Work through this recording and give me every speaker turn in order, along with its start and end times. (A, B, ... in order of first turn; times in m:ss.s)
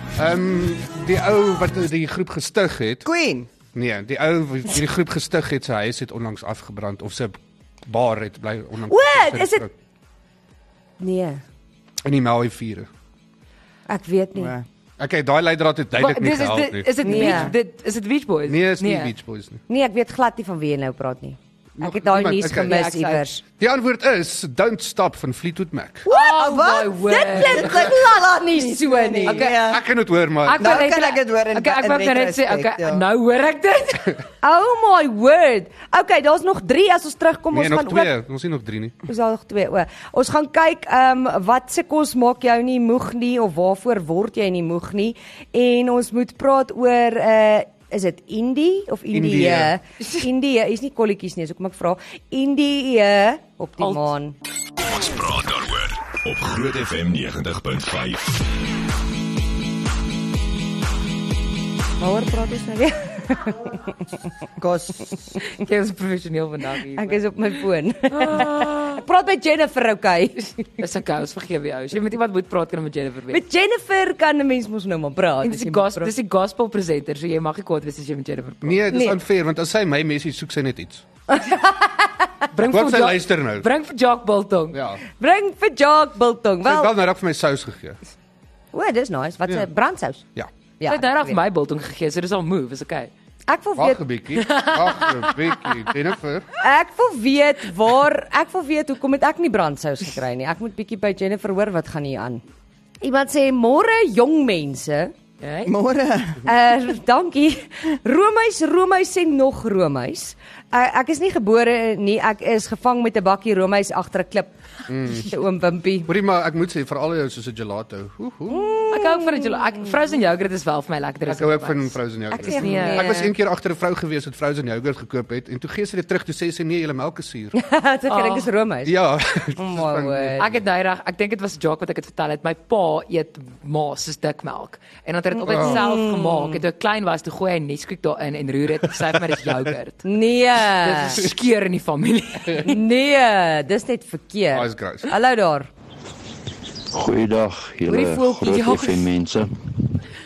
0:00.2-0:03.0 A
0:03.0-0:03.5 B
0:03.7-0:09.7 A
0:08.9-0:09.6 C
0:11.0-0:11.4 C
0:12.0-0:12.9 A
0:13.9-0:14.5 C
0:14.4-0:14.6 B
0:15.0-0:17.5 A
0:16.0-0:19.1 D
0:17.0-0:17.5 C
0:18.5-0:19.6 A
0:19.7-0:23.4 C
0:21.8-0:22.8 A
0:22.6-0:23.2 D
0:23.6-0:26.1 A
0:26.1-0:28.0 D
0:26.1-0:26.4 C
0:26.1-0:29.8 B
0:27.0-0:29.5 C
0:29.2-0:29.6 D
0:29.7-0:30.8 A
0:30.4-0:34.2 D
0:30.6-0:33.0 B
0:34.4-0:38.1 C
0:37.5-0:39.0 A
0:39.1-0:54.4 C
0:49.1-0:49.7 A
0:53.8-0:54.1 D
0:54.8-0:58.4 E
1:02.0-1:04.0 C
1:04.6-1:05.3 B
1:05.5-1:07.2 D
1:07.0-1:10.7 C
1:08.1-1:09.0 D
1:10.8-1:13.4 D
1:13.3-1:16.1 C
1:15.4-1:18.8 D
1:18.6-1:21.0 A
1:18.9-1:19.2 C
1:21.3-1:22.4 C
1:22.5-1:24.8 D
1:22.6-1:23.7 A
1:24.7-1:25.0 A
1:25.2-1:26.9 C
1:26.6-1:28.0 A
1:28.7-1:30.2 C
1:30.8-1:31.4 C
1:30.8-1:33.1 D
1:33.5-1:34.0 C
1:33.8-1:36.5 A
1:34.4-1:35.5 D
1:36.6-1:42.4 C
1:43.0-1:45.1 C
1:45.4-1:45.7 D
1:45.6-1:46.5 B
1:46.4-1:54.5 C
1:54.9-1:55.3 A
1:55.1-1:56.1 C
1:56.0-1:58.7 A
1:58.5-1:59.7 C
1:58.9-2:03.2 D
2:01.3-2:07.6 A
2:02.3-2:03.3 C
2:07.5-2:09.0 C
2:08.1-2:08.5 D
2:08.8-2:10.6 A
2:09.5-2:10.4 C
2:10.4-2:20.1 D
2:15.4-2:16.6 C
2:15.4-2:15.8 A
2:20.0-2:21.2 C
2:20.8-2:22.8 D
2:22.6-2:25.7 C
2:24.5-2:25.1 A
2:26.9-2:29.5 F
2:27.9-2:29.1 D